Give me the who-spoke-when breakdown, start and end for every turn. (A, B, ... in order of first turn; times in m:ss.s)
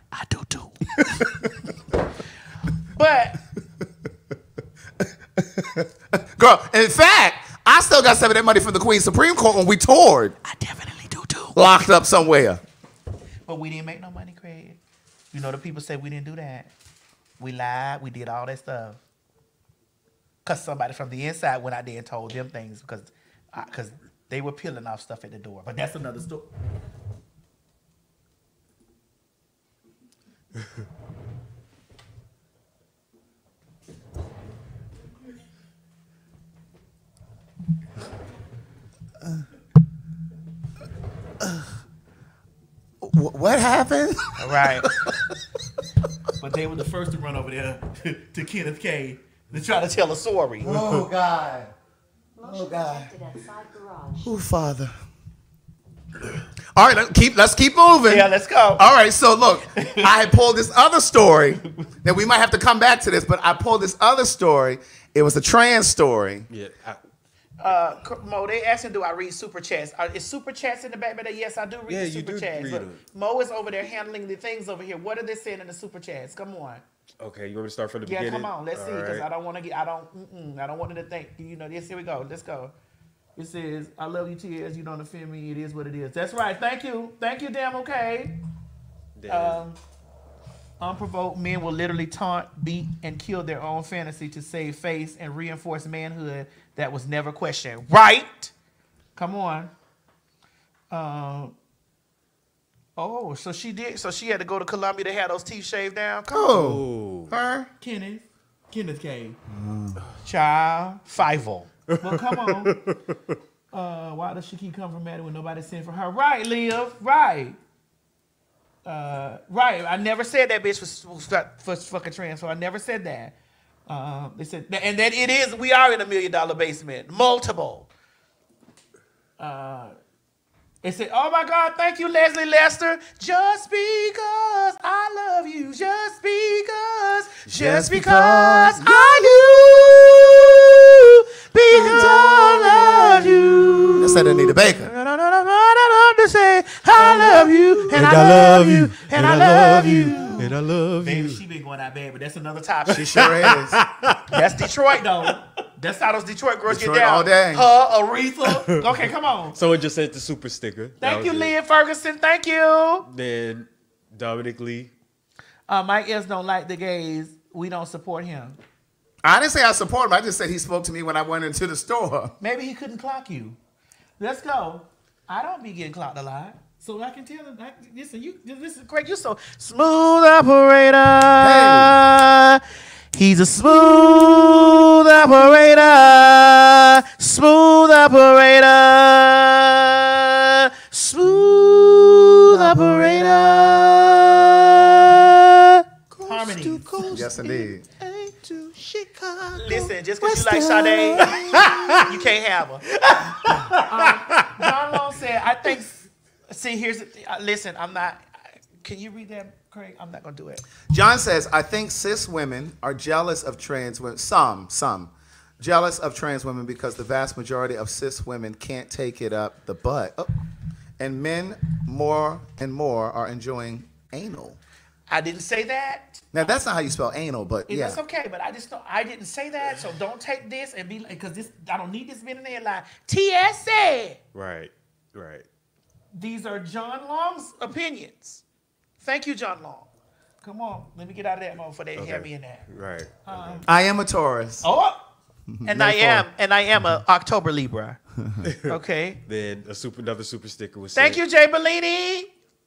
0:00.1-0:00.8 A
0:01.0-0:01.5 B
0:02.8-0:03.4 A
0:05.0-0:10.4 B
0:10.4-0:11.6 A
0:11.5-0:12.6 B
0:13.5-0:14.8 A
0:15.3-0:16.7 A
0:17.4-0:19.0 A
0:20.4-0:26.5 A
0:43.0-0:45.2 B
0:44.4-0:44.9 A
0:46.4-0:50.8 A
0:50.6-0:51.7 B
0:52.4-0:54.3 C
0:52.4-0:53.1 B
0:54.2-0:54.9 B
0:56.8-1:06.5 B
0:58.1-0:58.9 A
0:59.8-1:00.1 A
1:06.5-1:07.0 D
1:07.6-1:16.8 A
1:11.9-1:13.0 D
1:17.2-1:19.3 D
1:18.1-1:22.7 A
1:23.4-1:28.3 A
1:29.2-1:29.6 D
1:29.3-1:29.8 A
1:30.8-1:38.5 A
1:39.2-1:39.7 A
1:40.9-1:41.5 A
1:43.0-1:46.6 A
1:46.3-1:47.7 B
1:46.5-1:47.3 D
1:47.8-1:49.4 A
1:49.5-1:50.0 B
1:50.2-1:52.7 A
1:51.9-1:53.0 D
1:53.7-1:57.6 A
1:58.8-2:03.3 A
2:03.9-2:07.9 A
2:09.4-2:10.0 A
2:10.8-2:30.5 A
2:17.5-2:20.3 B
2:21.7-2:23.1 B
2:24.0-2:24.9 B
2:27.0-2:28.2 B
2:27.9-2:31.4 D
2:31.0-2:33.3 A
2:32.9-2:33.8 B
2:33.1-2:34.4 D
2:34.3-2:39.6 A
2:36.7-2:37.7 B
2:38.5-2:39.0 D
2:39.5-2:41.5 D
2:41.0-2:43.1 A
2:43.1-2:44.9 D
2:45.7-2:48.6 A
2:49.2-2:52.4 B
2:52.4-2:53.6 A
2:54.2-3:02.6 A
3:01.4-3:02.0 B
3:03.1-3:14.2 A
3:12.5-3:13.6 B
3:14.8-3:15.4 A
3:16.1-3:17.4 D
3:16.2-3:16.9 A
3:17.0-3:17.9 B
3:18.3-3:22.0 D
3:19.6-3:21.3 A
3:21.0-3:22.0 B
3:22.0-3:22.8 A
3:23.0-3:23.7 D
3:23.6-3:28.2 A
3:28.8-3:30.6 A
3:30.9-3:40.3 B
3:41.0-3:44.6 B
3:45.1-3:46.2 A
3:46.3-3:48.0 B
3:47.7-3:54.2 A
3:54.3-3:55.5 D
3:56.1-3:58.4 A
3:59.0-3:59.9 A
4:00.4-4:02.6 A
4:02.0-4:03.6 D
4:03.2-4:03.7 A
4:03.7-4:04.7 B
4:04.6-4:05.0 A
4:05.5-4:06.3 B
4:05.6-4:08.0 A
4:08.2-4:08.4 B
4:08.4-4:11.2 D
4:08.7-4:09.2 A
4:11.0-4:12.3 A